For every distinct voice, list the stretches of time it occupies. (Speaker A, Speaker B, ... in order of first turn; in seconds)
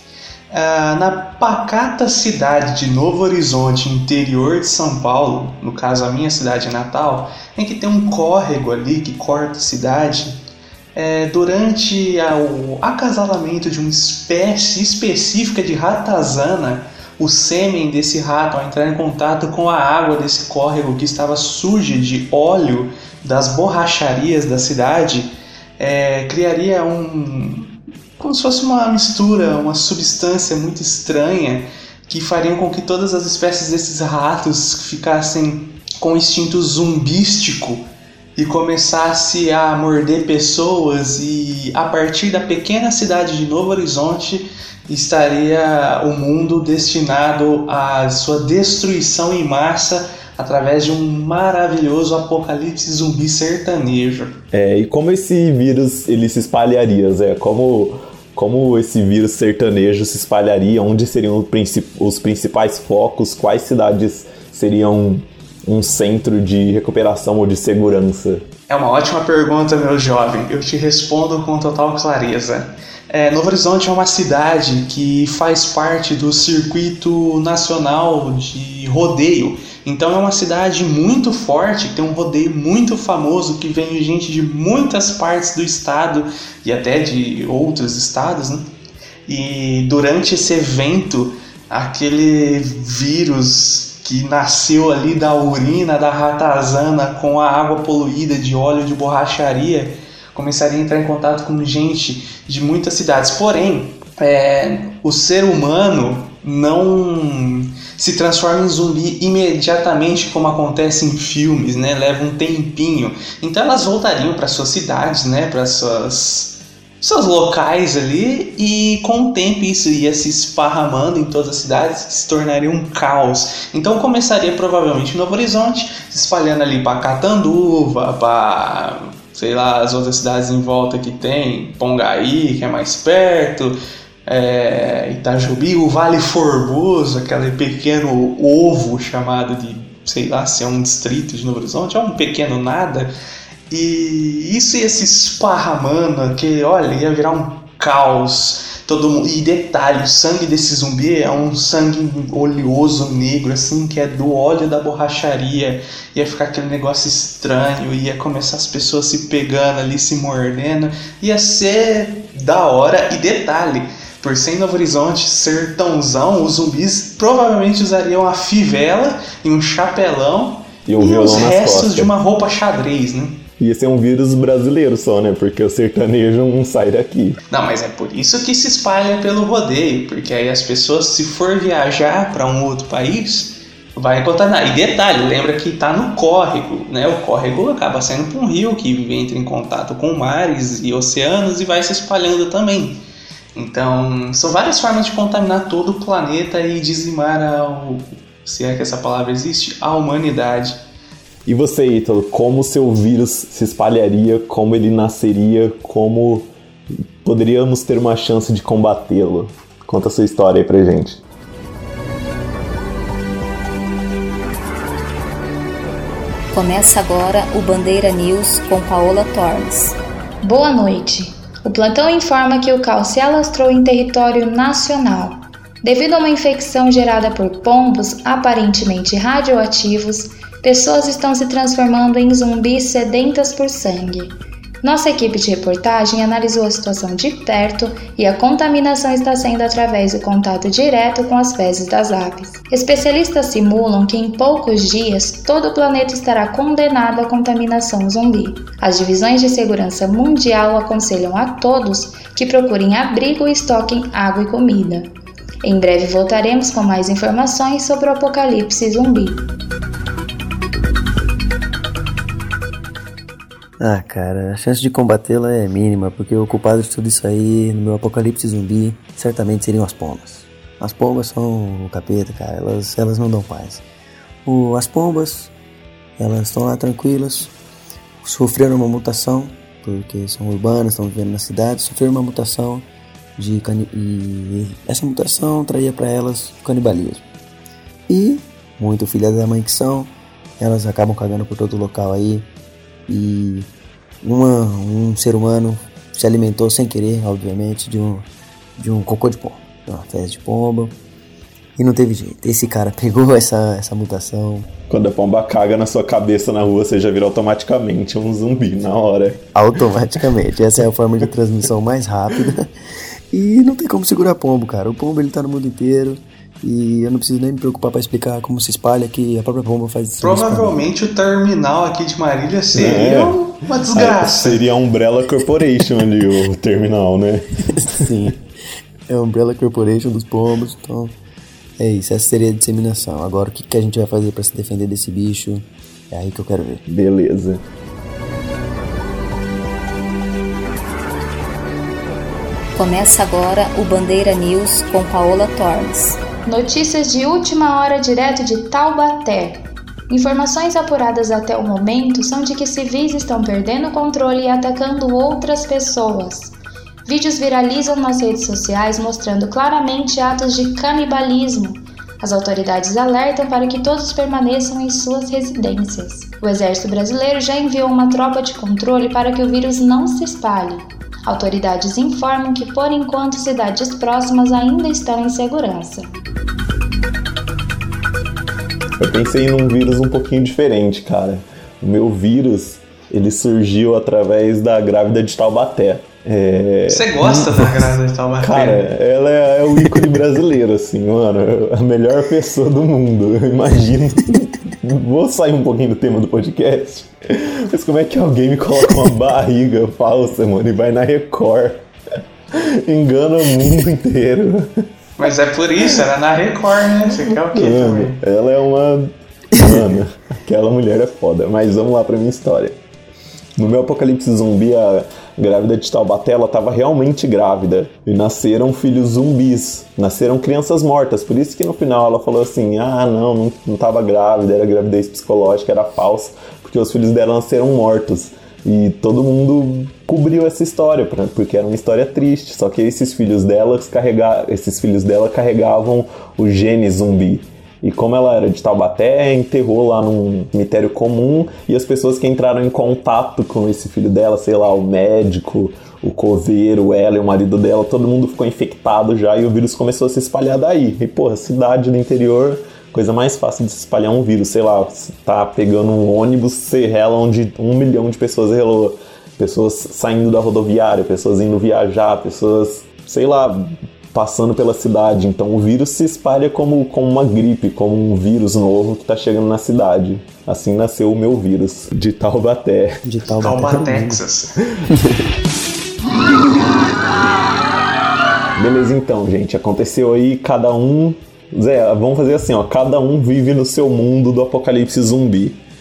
Speaker A: 0.5-10.4, 10.9-54.4, 68.7-88.7, 89.3-133.8, 134.3-143.1, 143.7-173.4, 177.5-193.0, 193.6-200.8, 320.2-324.7, 386.9-388.9, 405.2-408.2, 473.4-474.6
Speaker B: 54.5-68.5, 170.9-172.1, 173.6-177.4, 201.5-206.5, 207.2-211.2, 304.9-309.5, 322.7-323.4, 323.9-328.1, 336.9-337.6, 379.0-387.9, 388.4-401.9, 402.5-404.8, 407.1-412.8, 413.6-473.0, 478.6-485.6
Speaker C: 216.5-220.0, 342.8-346.2
Speaker D: 220.4-255.1, 255.6-259.4, 346.4-356.6, 357.1-376.1
Speaker E: 263.8-273.8, 274.4-275.5, 276.2-277.5, 278.2-282.9, 283.4-287.2, 288.1-292.5, 293.1-293.7, 294.2-301.0, 301.8-304.7, 309.6-312.7, 313.3-320.8, 327.7-328.4, 329.1-331.1, 331.8-336.8, 473.0-474.2, 474.9-475.2